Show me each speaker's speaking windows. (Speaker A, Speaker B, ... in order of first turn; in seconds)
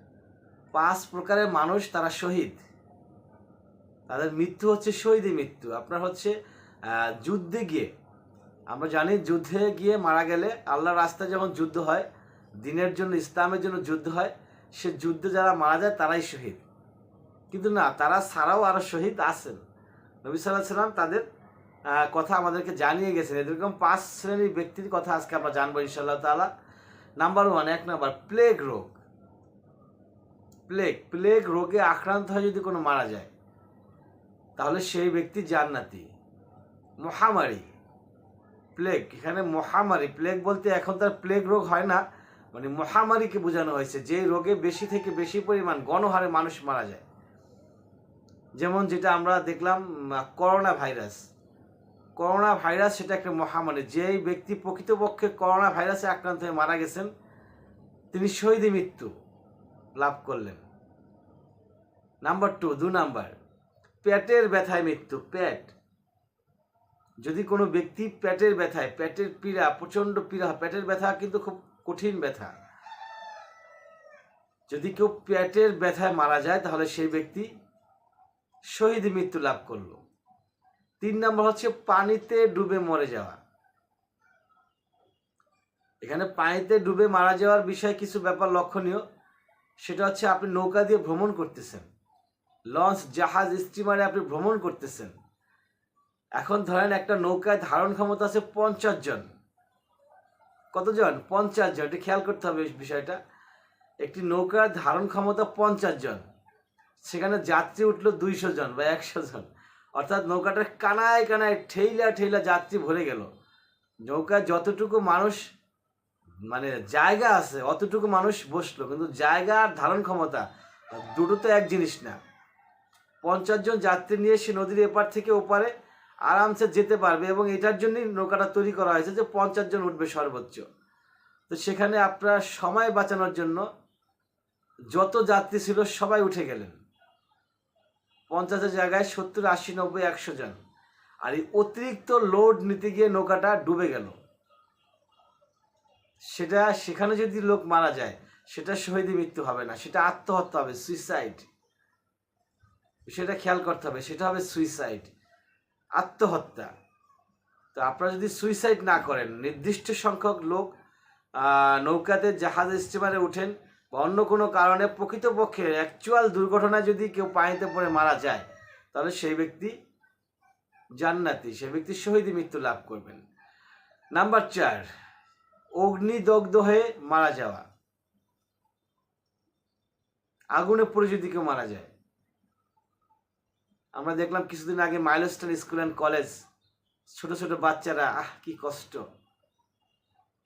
Speaker A: 0.7-2.6, 4.1-7.9, 8.7-12.1, 12.6-16.6, 17.5-19.6, 20.2-21.2, 21.9-26.5, 27.2-29.0, 30.7-33.3, 34.6-36.1, 37.0-37.7, 38.8-47.0, 48.6-51.2, 52.2-57.1, 58.1-59.1, 60.0-60.6, 62.2-63.4, 64.0-65.7, 67.2-72.5, 74.7-77.5, 78.7-80.0, 81.0-83.4, 86.0-89.0, 89.8-91.9, 92.7-95.2, 96.4-99.3, 100.7-103.2, 104.0-106.3, 107.0-113.3, 114.0-115.4, 116.5-122.2, 123.2-125.7, 126.2-130.7, 131.5-133.7, 134.9-136.8, 138.3-140.6, 141.2-144.2, 146.3-151.5, 153.1-155.1, 156.0-156.7, 157.7-160.7, 161.4-169.8, 171.0-173.2, 174.1-174.9, 175.8-177.7, 180.6-181.9, 183.9-186.3, 187.1-189.0